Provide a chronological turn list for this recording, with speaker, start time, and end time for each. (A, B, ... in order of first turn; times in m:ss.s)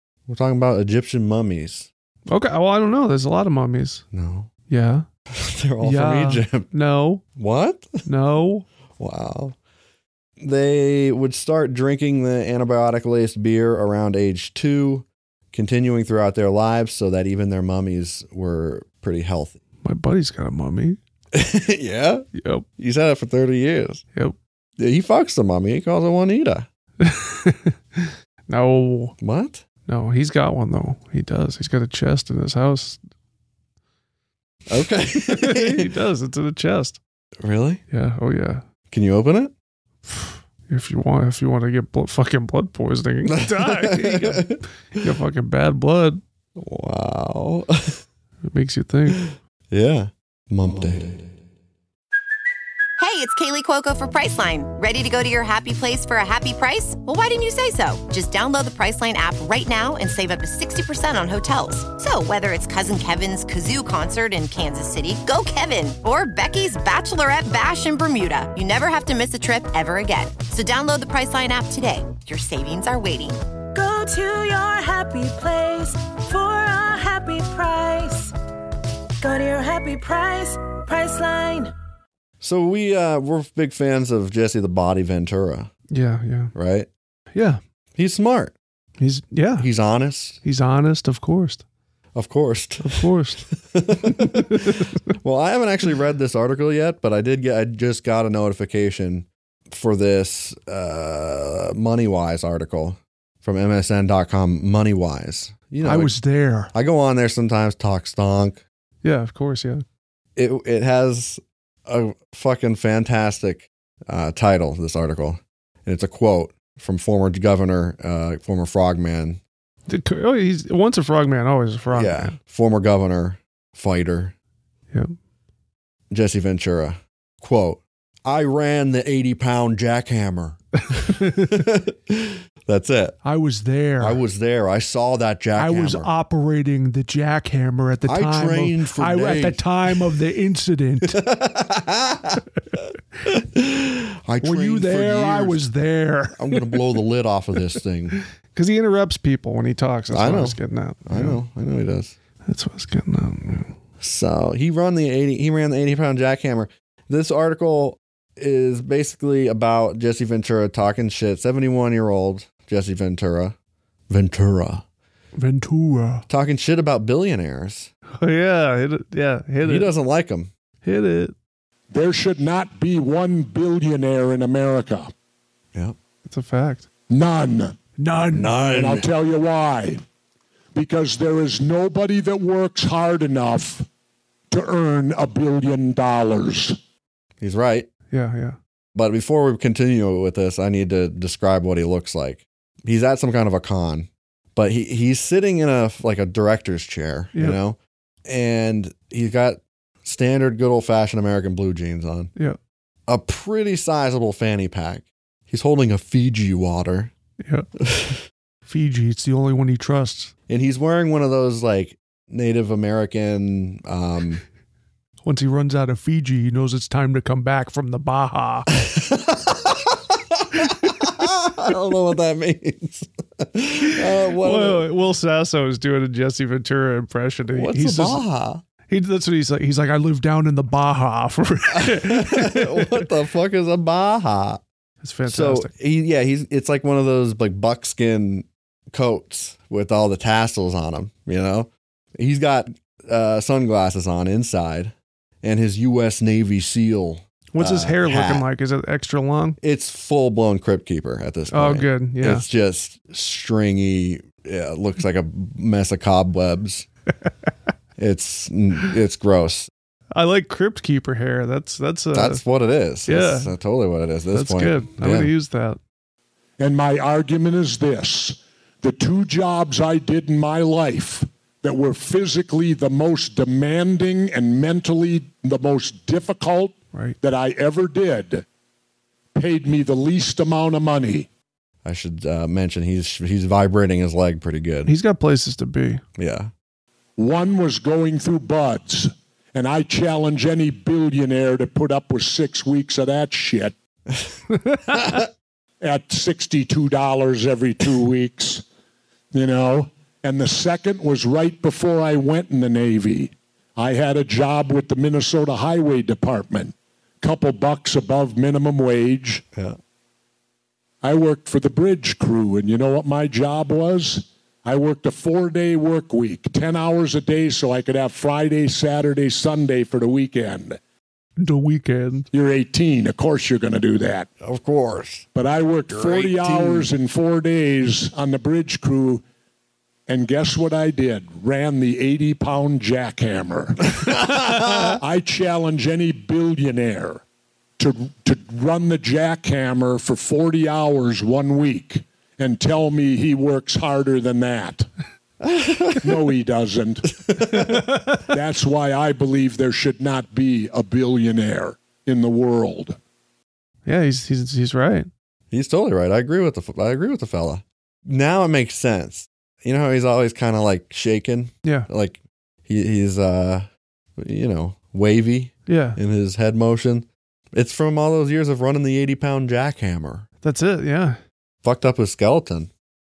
0:00.3-0:01.9 A
0:02.3-0:04.0 B
0:04.1-0:04.5 A
0:04.7-0:05.0 B
0:05.3-0:06.7 A
0:05.8-0:07.2 B
0:07.4-0:08.0 A
0:08.0-0:08.7 B
0:09.0-0:09.6 A
0:10.4-0:19.6 A
0:19.8-0:21.0 B
0:21.3-0:22.3 A
0:22.4-0:22.6 B
0:22.8-0:24.0 A
0:24.8-0:26.7 A
0:27.0-0:29.1 B
0:29.2-0:29.6 A
0:29.9-0:33.0 B
0:34.7-0:35.9 A
0:35.2-0:37.0 B
0:37.4-0:37.8 A
0:37.9-0:38.6 B
0:38.9-0:39.5 A
0:40.0-0:46.2 B
0:43.2-0:44.6 A
0:46.6-0:48.0 A
0:48.5-0:49.2 B
0:49.1-0:51.3 A
0:53.0-1:13.4 C
1:13.7-1:18.3 D
1:19.2-1:21.7 D
1:22.4-1:25.7 A
1:25.9-1:26.5 B
1:26.5-1:26.9 A
1:27.3-1:27.6 B
1:27.9-1:28.5 A
1:29.0-1:29.7 B
1:29.6-1:30.4 A
1:30.4-1:31.6 B
1:32.1-1:34.7 A
1:32.8-1:33.5 B
1:34.0-1:35.1 B
1:35.2-1:46.2 A
1:45.8-1:46.7 B
1:46.7-1:48.6 A
1:49.0-1:49.8 B
1:50.4-1:59.4 A
1:59.9-2:02.3 B
2:01.9-2:04.3 A
2:06.1-2:13.2 A
2:11.0-2:11.5 B
2:13.2-2:14.2 B
2:14.0-2:16.1 A
2:15.5-2:21.2 B
2:18.0-2:20.1 A
2:21.0-2:22.4 A
2:23.2-2:25.6 A
2:24.4-2:26.8 B
2:26.3-2:28.2 A
2:28.5-2:31.4 B
2:30.1-2:32.1 A
2:32.4-2:33.7 B
2:34.0-2:43.6 A
2:44.1-2:44.8 A
2:45.4-2:46.2 B
2:46.3-2:47.9 A
2:48.2-2:49.9 B
2:49.6-2:50.5 A
2:50.8-2:51.3 B
2:51.9-2:55.1 E
2:56.2-2:56.9 B
2:57.1-2:57.7 E
2:58.0-2:58.6 B
2:58.3-2:59.1 A
2:58.6-3:00.0 E
3:00.7-3:03.8 E
3:04.5-3:06.8 E
3:07.4-3:07.9 A
3:08.1-3:08.6 B
3:08.9-3:22.3 A
3:23.1-3:27.1 A
3:27.4-3:27.7 B
3:27.8-3:28.2 A
3:28.6-3:30.3 B
3:30.5-3:34.4 A
3:35.2-3:38.7 B
3:38.8-3:44.9 A
3:43.8-3:48.2 B
3:47.5-3:48.6 A
3:48.9-3:53.0 B
3:51.7-3:54.6 A
3:55.0-3:55.7 B
3:55.3-4:08.4 A
4:07.5-4:09.6 B
4:09.6-4:16.9 A
4:11.5-4:12.4 B
4:18.0-4:19.7 A
4:20.1-4:22.4 B
4:22.1-4:25.3 A
4:23.0-4:23.5 B
4:24.3-4:25.8 B
4:26.6-4:38.4 E
4:39.3-4:41.3 E
4:41.8-4:44.9 A
4:44.8-4:46.0 B
4:46.2-4:46.5 A
4:47.2-4:53.7 E
4:54.1-4:54.3 A
4:54.5-4:55.2 B
4:54.9-4:55.3 A
4:55.8-4:58.6 E
4:59.3-5:09.4 E
5:09.5-5:09.8 A
5:11.0-5:20.8 E
5:21.4-5:22.3 B
5:22.3-5:24.3 E
5:24.4-5:25.3 A
5:25.3-5:29.2 E
5:25.9-5:26.9 A
5:30.1-5:33.8 E
5:33.9-5:35.0 A
5:34.5-5:34.9 B
5:35.0-5:37.2 E
5:37.8-5:44.9 E
5:45.4-5:46.1 A
5:46.0-5:47.1 E
5:47.2-5:47.8 A
5:47.5-5:48.2 B
5:48.3-5:53.0 E
5:53.8-5:55.1 B
5:55.5-6:10.2 A
6:01.6-6:01.9 B
6:05.7-6:06.0 B
6:10.4-6:11.2 B
6:11.6-6:12.7 A